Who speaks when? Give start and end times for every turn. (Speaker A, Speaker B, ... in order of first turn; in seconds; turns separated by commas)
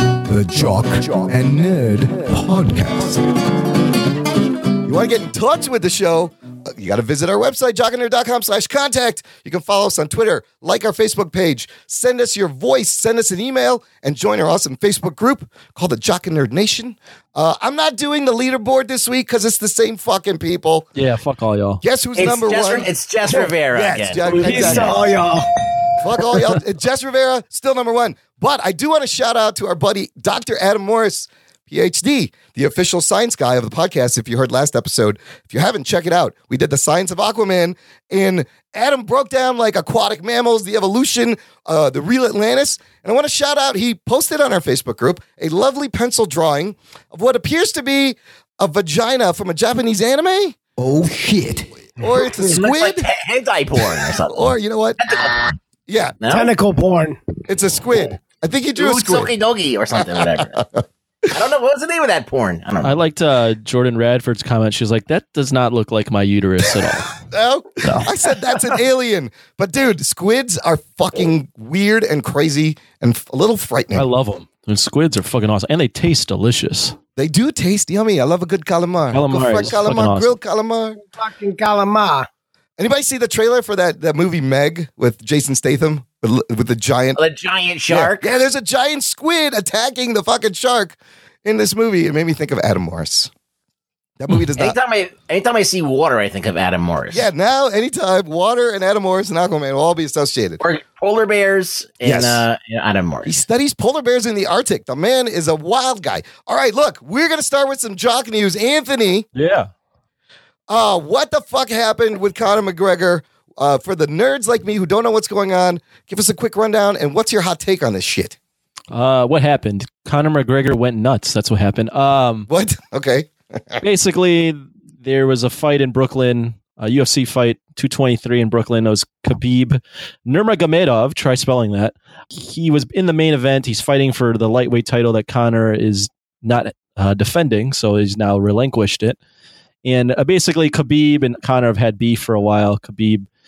Speaker A: 0.3-1.3, Speaker B: 0.5-3.3, Speaker B: 4.8-20.9, Speaker C: 20.9-21.8, Speaker B: 21.8-22.9, Speaker D: 22.1-24.2, Speaker B: 23.7-25.0, Speaker C: 24.2-24.9, Speaker E: 24.4-25.4, Speaker B: 26.0-50.6, Speaker A: 50.8-51.7, Speaker B: 52.0-53.1, Speaker D: 52.4-54.4, Speaker B: 54.2-55.0, Speaker D: 55.0-55.6, Speaker B: 55.9-56.1, Speaker D: 56.2-56.5, Speaker E: 56.3-57.2, Speaker B: 57.5-59.3, Speaker D: 58.8-60.6, Speaker B: 59.9-60.8, Speaker D: 61.3-63.0, Speaker C: 62.8-67.2, Speaker B: 67.2-74.0, Speaker C: 73.9-76.9, Speaker B: 77.2-81.0, Speaker C: 79.1-80.3, Speaker E: 81.1-82.3, Speaker B: 82.8-87.2, Speaker D: 87.2-88.2, Speaker B: 87.9-93.3, Speaker B: 94.2-94.8, Speaker D: 94.6-97.2, Speaker B: 97.1-100.6, Speaker D: 100.6-103.4, Speaker B: 102.0-102.4, Speaker B: 103.2-109.2, Speaker C: 109.3-109.7, Speaker B: 110.7-118.3, Speaker C: 118.9-122.5, Speaker B: 122.5-123.8, Speaker C: 123.8-139.2, Speaker C: 139.8-143.2